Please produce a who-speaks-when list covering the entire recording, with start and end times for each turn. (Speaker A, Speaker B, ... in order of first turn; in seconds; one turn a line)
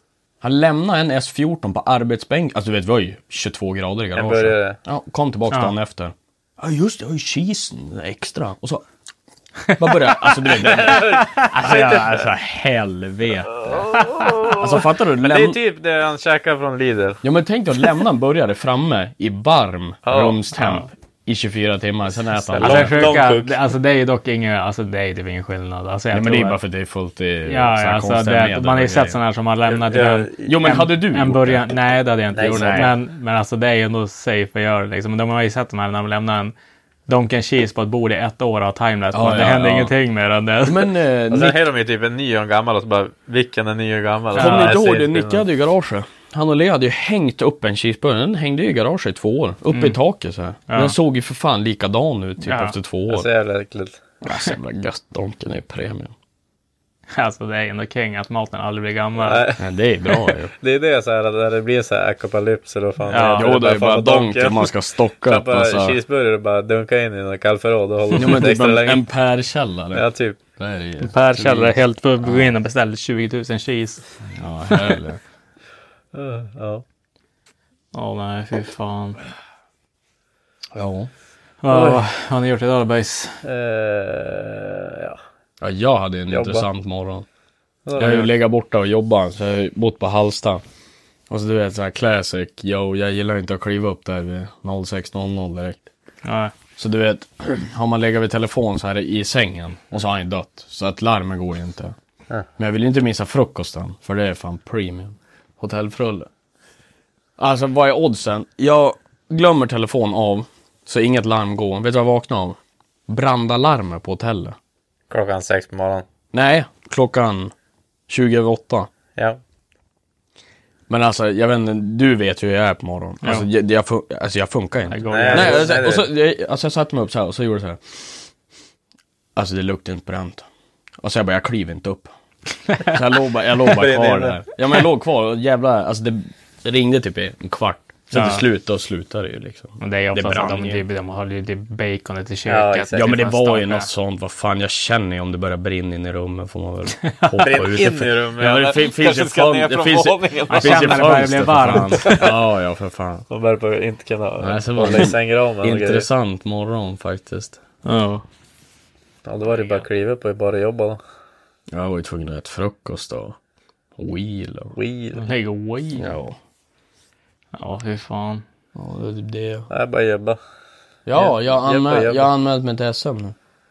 Speaker A: 0.4-8.8
Speaker B: 4.2-4.8
Speaker C: 9.7-10.1
Speaker A: 9.8-13.8
Speaker B: 10.6-12.3
Speaker C: 11.1-11.5
Speaker B: 13.6-17.2
Speaker C: 14.0-14.3
Speaker A: 14.5-15.6
Speaker A: 17.2-23.2
Speaker B: 20.1-20.4
Speaker C: 20.6-20.9
Speaker C: 22.5-26.6
Speaker B: 22.6-23.6
Speaker A: 26.1-29.2
Speaker C: 27.5-36.5
Speaker B: 29.7-30.6
Speaker A: 30.4-31.6
Speaker B: 32.3-32.9
Speaker A: 32.4-32.9
Speaker C: 37.1-40.9
Speaker A: 39.1-40.0
Speaker A: 40.6-41.6
Speaker B: 41.3-45.4
Speaker A: 44.4-53.3
Speaker C: 44.4-44.8
Speaker C: 49.7-50.0
Speaker C: 50.7-51.0
Speaker C: 52.5-52.8
Speaker B: 53.1-54.0
Speaker A: 54.2-56.1
Speaker C: 57.1-59.5
Speaker B: 59.2-59.6
Speaker A: 59.6-60.5
Speaker B: 60.6-69.0
Speaker C: 63.1-63.5
Speaker A: 63.4-66.0
Speaker A: 68.2-70.0
Speaker B: 69.9-70.4
Speaker A: 70.6-72.5
Speaker C: 71.0-74.0
Speaker A: 74.2-75.2
Speaker C: 74.7-75.0
Speaker B: 76.1-76.8
Speaker C: 77.9-79.2
Speaker A: 80.7-81.1
Speaker C: 81.6-83.4
Speaker B: 81.7-82.0
Speaker B: 83.4-85.2
Speaker A: 85.6-87.3
Speaker B: 86.3-86.7
Speaker B: 87.9-88.3
Speaker A: 88.0-90.6
Speaker A: 91.3-95.8
Speaker C: 96.2-96.5
Speaker A: 96.8-102.0
Speaker A: 102.6-106.3
Speaker A: 107.4-114.6
Speaker B: 115.1-116.1
Speaker A: 116.3-117.5
Speaker A: 118.1-118.9
Speaker A: 120.9-128.2
Speaker C: 123.2-123.5
Speaker C: 124.9-125.8
Speaker B: 125.1-126.1
Speaker A: 129.4-130.5
Speaker A: 131.0-132.1
Speaker C: 132.7-132.9
Speaker A: 132.8-140.8
Speaker B: 133.7-134.4
Speaker C: 138.1-138.4
Speaker C: 139.8-143.9
Speaker B: 142.5-143.1
Speaker A: 142.9-153.3
Speaker C: 147.2-147.6
Speaker B: 147.4-151.2
Speaker C: 150.5-152.2
Speaker B: 152.1-152.3
Speaker B: 153.3-156.1
Speaker A: 154.4-157.6
Speaker C: 157.8-158.2
Speaker B: 159.3-161.0
Speaker A: 161.7-163.4
Speaker A: 164.0-164.7
Speaker B: 164.8-165.2
Speaker C: 165.2-166.1
Speaker A: 166.0-166.4
Speaker C: 167.6-168.4
Speaker A: 168.8-169.7
Speaker B: 169.7-170.4
Speaker A: 171.1-173.4
Speaker B: 171.2-172.3